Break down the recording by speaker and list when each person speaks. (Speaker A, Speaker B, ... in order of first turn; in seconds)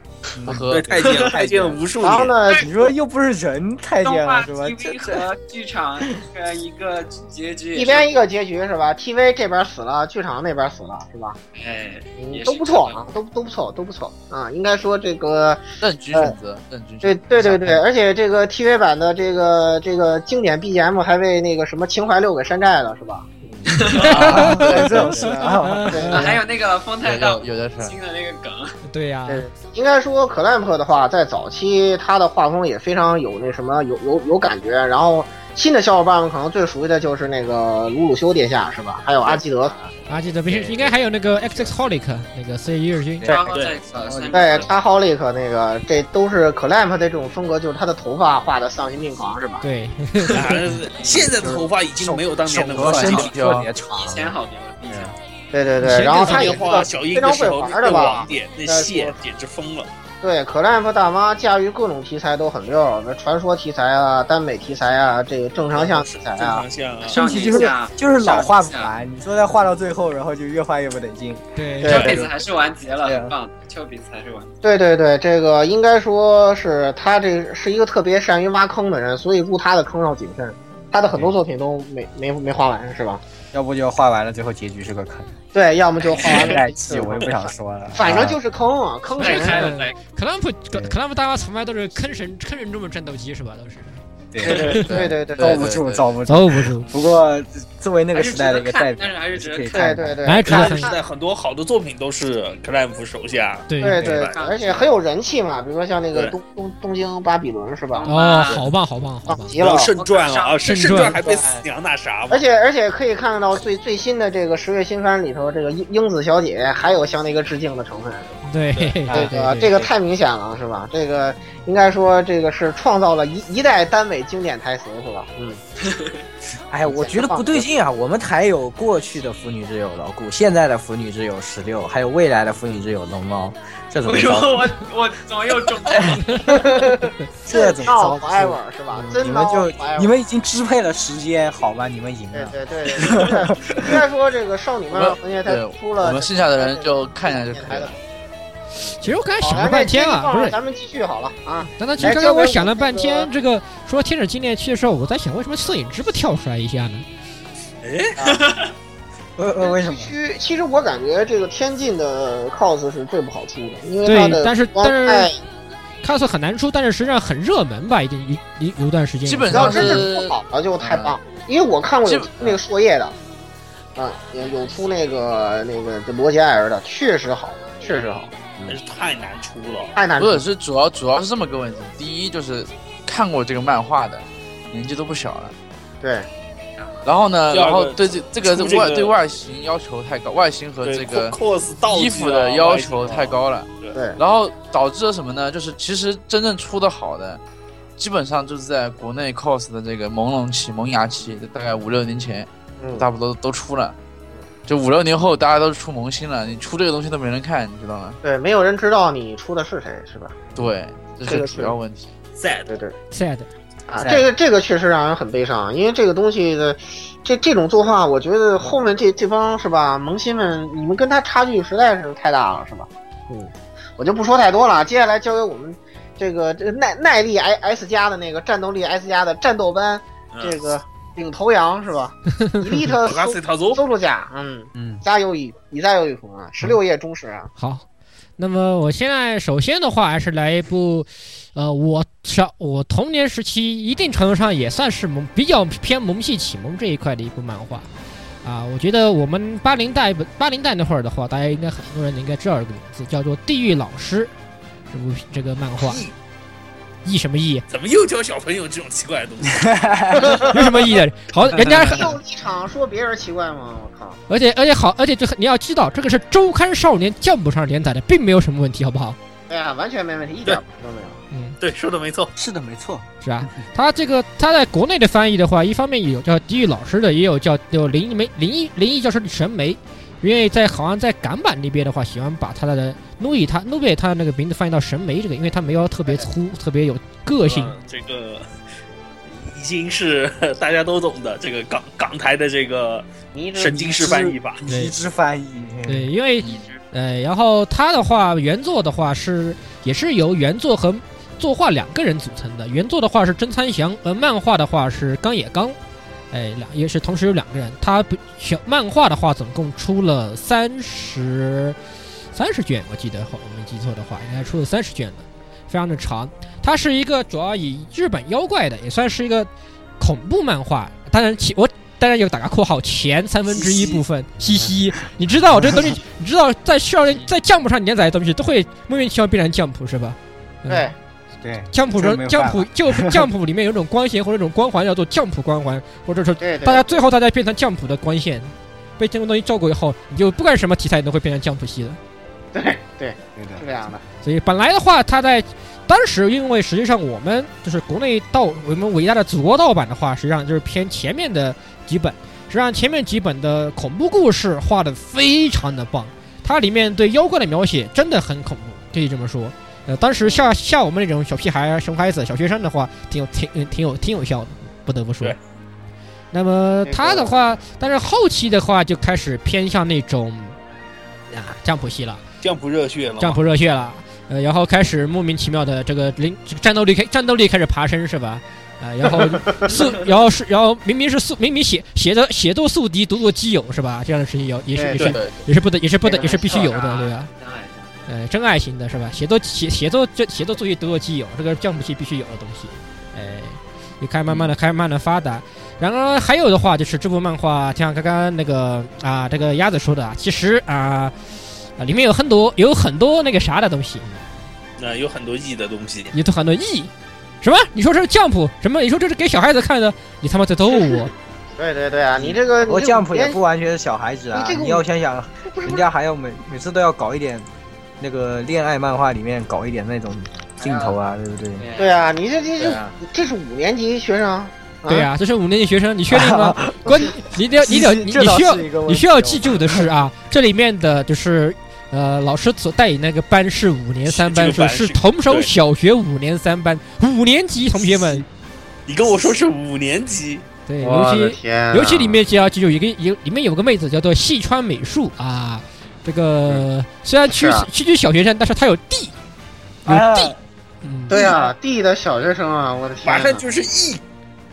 Speaker A: 0.4-1.8, 2.6-5.2, 24.1-26.3, 43.2-43.4, 44.0-44.7, 51.0-54.4, 54.9-55.1, 67.1-72.3, 73.0-73.3, 83.5-85.3, 86.2-88.4, 90.7-91.0, 94.3-94.8, 95.4-100.2, 111.2-111.6, 119.1-119.8, 126.7-134.7, 136.0-136.7, 137.4-144.0, 159.4-160.1, 214.0-214.3, 234.7-235.0, 259.7-260.3, 272.4-273.1, 294.6-296.1, 323.5-324.0, 325.6-325.9, 331.4-333.3, 343.3-343.6, 412.6-417.5, 418.0-421.6, 426.1-429.9, 449.9-450.4
Speaker B: 0.5-0.9, 15.8-17.8, 27.0-27.9, 52.7-53.7, 94.8-96.1, 144.9-148.0, 169.2-171.2, 172.1-172.6, 180.2-185.5, 187.0-197.4, 198.0-203.9, 204.7-208.2, 210.5-212.1, 296.4-296.7, 385.0-385.4
Speaker C: 0.7-2.3, 50.3-53.4, 56.0-59.9, 65.7-67.2, 71.8-72.2, 100.5-104.4, 109.6-112.4, 157.8-158.4, 178.7-179.9, 187.5-189.2, 190.8-193.9, 212.4-212.7, 230.3-230.6, 233.0-233.8, 255.8-256.1, 257.7-259.8, 271.6-272.3, 287.4-288.5, 289.3-294.6, 372.4-373.4, 404.8-406.1, 434.1-435.5, 438.9-440.4, 451.2-451.5, 453.0-454.0
Speaker D: 2.0-2.7, 7.7-11.4, 12.2-16.3, 17.0-26.4, 29.3-39.9, 44.3-49.6, 55.5-59.2, 60.2-66.6, 71.8-72.2, 74.6-83.2, 85.5-89.7, 94.4-95.6, 99.7-101.0, 103.8-108.1, 109.3-109.9, 112.3-118.4, 119.1-125.6, 126.9-127.7, 136.5-140.1, 142.3-147.9, 148.8-153.3, 159.7-165.3, 169.5-173.1, 173.9-178.8, 179.9-180.4, 186.0-186.3, 193.9-194.2, 202.8-203.1, 208.2-210.5, 211.2-211.8, 212.7-212.9, 213.9-237.5, 260.1-260.6, 261.6-264.2, 269.5-271.2, 293.3-294.4, 330.7-330.9, 336.4-337.1, 342.5-344.0, 360.2-360.5, 366.8-367.5, 384.7-385.1, 386.1-386.6, 411.6-413.4, 414.3-414.8, 415.5-415.8, 421.8-425.1, 440.8-442.2, 447.3-447.7, 451.1-453.4
Speaker E: 4.0-8.2, 11.6-13.0, 23.8-24.3, 26.1-28.8, 43.2-44.8, 53.9-55.1, 67.1-68.9, 71.8-74.5, 86.0-86.3, 89.2-90.0, 98.1-99.9, 104.1-105.0, 107.9-108.7, 109.9-110.6, 125.8-126.2, 134.1-136.5, 386.1-388.1, 420.6-420.9, 421.6-422.0
Speaker F: 23.9-24.8, 25.6-26.3, 28.9-29.5, 40.1-43.3, 49.6-50.7, 55.8-56.9, 71.5-72.1, 89.2-94.8, 96.2-96.9, 100.2-100.9, 103.7-104.1, 108.0-109.5, 110.6-111.2, 118.5-119.9, 149.0-150.5, 151.8-157.0, 164.0-165.3, 166.0-170.0, 213.1-213.5, 237.6-237.8, 238.4-247.9, 248.4-254.3, 254.9-256.0, 257.0-257.6, 260.4-262.1, 264.3-269.2, 271.3-271.6, 273.2-287.7, 294.7-294.9, 295.9-305.7, 306.3-311.8, 312.3-330.9, 331.7-342.0, 344.2-365.4, 366.3-370.5, 371.3-372.2, 373.2-387.3, 388.1-401.1, 401.8-404.2, 406.1-406.9, 407.4-411.1, 424.9-438.2, 440.7-449.1, 449.9-451.4